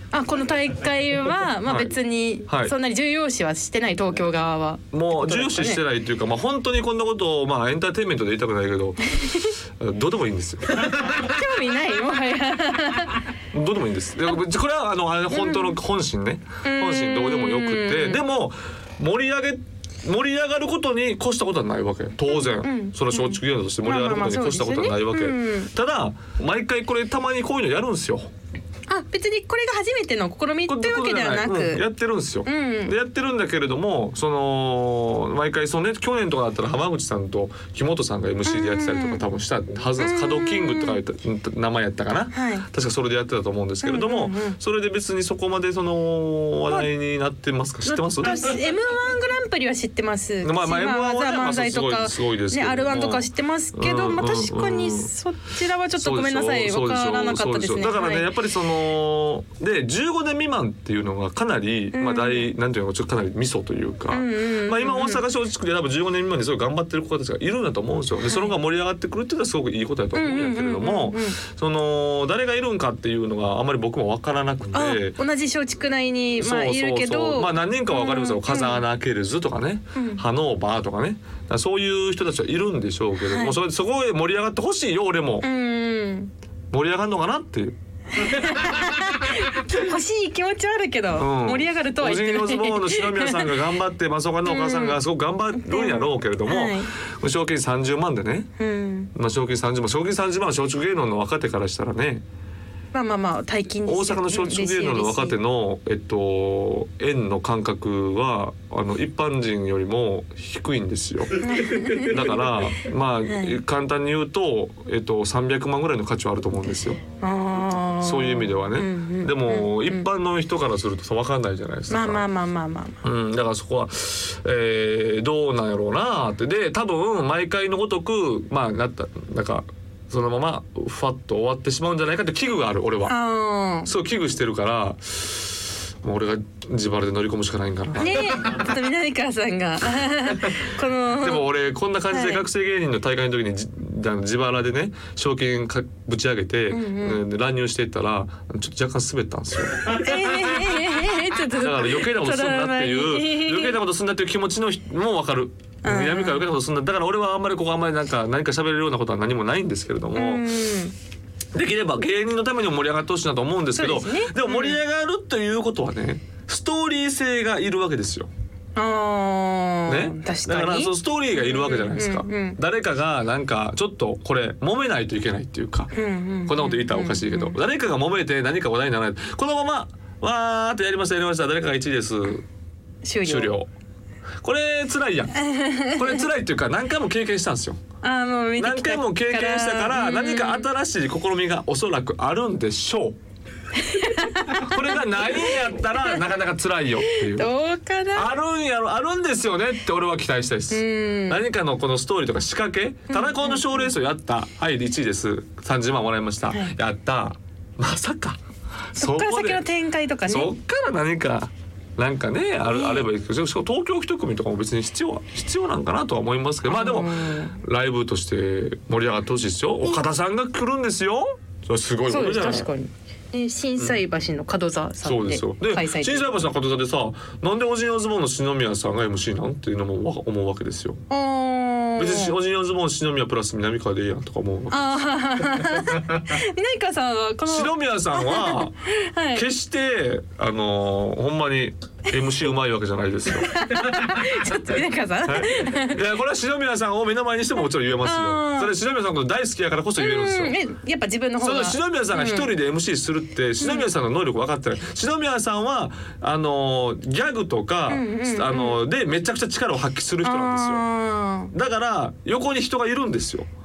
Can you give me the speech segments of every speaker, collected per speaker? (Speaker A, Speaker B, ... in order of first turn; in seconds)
Speaker A: 0.1-5.8, 9.2-9.5, 10.8-13.2, 15.3-15.8, 16.6-18.2, 22.3-25.7, 28.9-31.8, 32.4-32.9, 38.4-39.2, 40.0-41.0, 42.3-42.7, 43.8-44.6, 47.9-58.3, 61.9-62.5, 64.1-65.2, 68.2-68.5, 70.1-71.4, 74.7-78.8, 79.9-80.2, 83.2-83.6, 85.4-86.3, 88.1-93.6, 94.4-95.0, 95.5-96.9, 98.6-99.1, 102.9-105.4, 111.4-112.3, 113.3-113.6, 117.2-120.1, 121.9-123.0, 133.1-133.9, 138.0-141.4, 142.1-142.5, 146.7-147.2, 149.9-153.8, 155.8-156.4, 160.1-160.9, 163.8-164.8, 168.8-172.6, 175.9-177.6, 183.0-183.6, 185.3-186.3, 188.0-190.7, 193.8-196.2, 197.0-198.3, 200.7-201.4, 203.1-203.9, 206.5-206.7, 208.9-210.5, 212.7-213.1, 216.6-217.6, 222.1-226.4, 231.1-232.4, 234.7-239.5, 243.3-246.0, 248.0-248.7, 250.0-252.5, 253.6-253.9, 257.9-258.8, 260.2-261.5
Speaker B: 1.6-1.9, 2.5-2.7, 4.9-11.0, 13.5-28.3, 30.6-48.6, 50.4-55.1, 55.9-75.2, 76.4-85.5, 86.7-87.7, 91.2-98.5, 99.1-102.2, 103.8-117.0, 118.0-122.3, 123.0-133.2, 133.8-138.5, 141.2-160.5, 161.5-168.3, 169.9-175.9, 176.4-182.4, 183.2-183.7, 184.4-187.8, 188.6-193.2, 194.5-197.5, 198.1-208.4, 208.9-209.6, 210.2-222.7, 225.0-231.0, 232.0-235.6, 237.4-238.8, 239.3-244.3, 245.2-250.6, 251.4-260.8, 261.5-263.5